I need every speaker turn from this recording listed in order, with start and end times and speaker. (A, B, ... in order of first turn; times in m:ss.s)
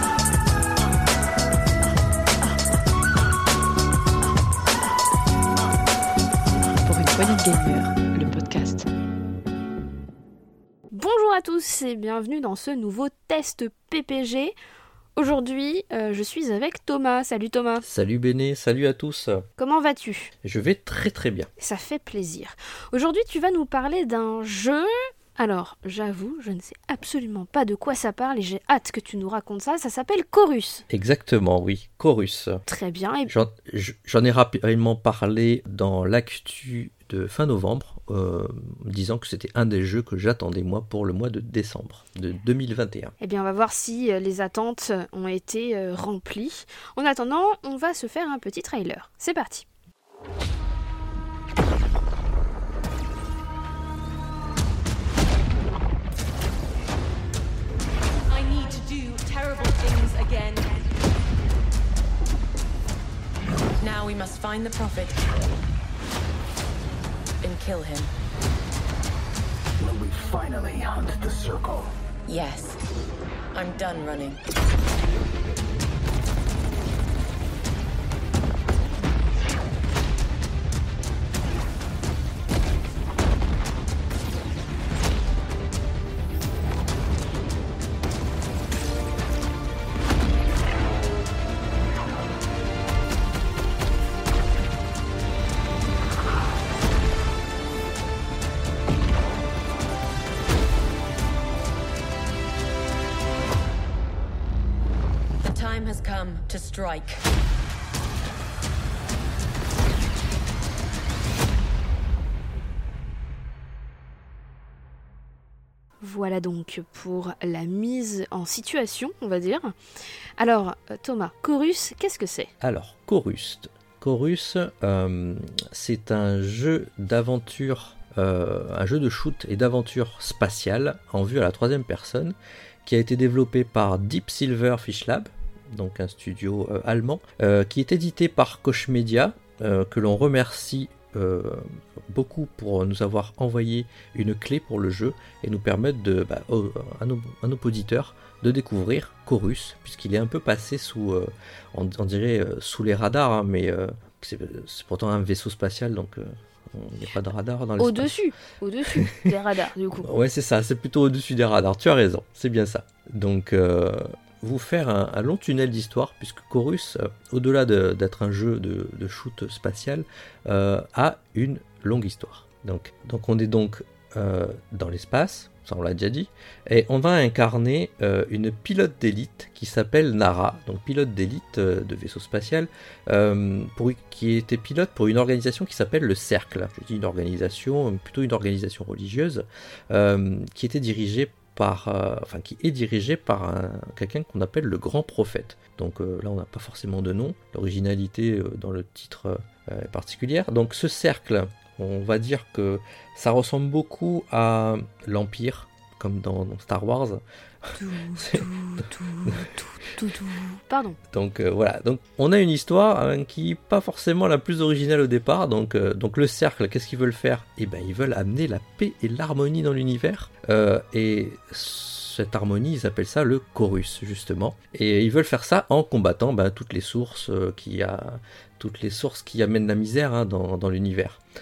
0:06.8-0:08.9 A
0:10.9-0:14.6 B
0:15.2-0:17.9 B
0:17.8-0:19.4 C
0:19.6-0:20.3 B
0:20.4-0:21.5 C
0:21.6-0:30.8 B
0:30.9-0:32.6 C
0:32.7-0:33.3 B
0:33.3-0:43.1 C
0:43.2-0:49.6 B
0:58.3-1:00.7 D
1:03.8-1:05.3 D
1:07.4-1:08.1 D
1:09.8-1:11.9 E
1:12.3-1:12.8 D
1:13.5-1:14.4 D
1:45.4-1:47.2 D
1:56.0-1:59.8 B
2:00.4-2:02.5 B
2:02.6-2:38.2 C
2:37.8-2:40.1 B
2:38.9-2:39.2 C
2:40.0-3:27.2 C
3:27.8-3:31.0 B
3:28.2-3:28.5 C
3:31.1-3:51.2 C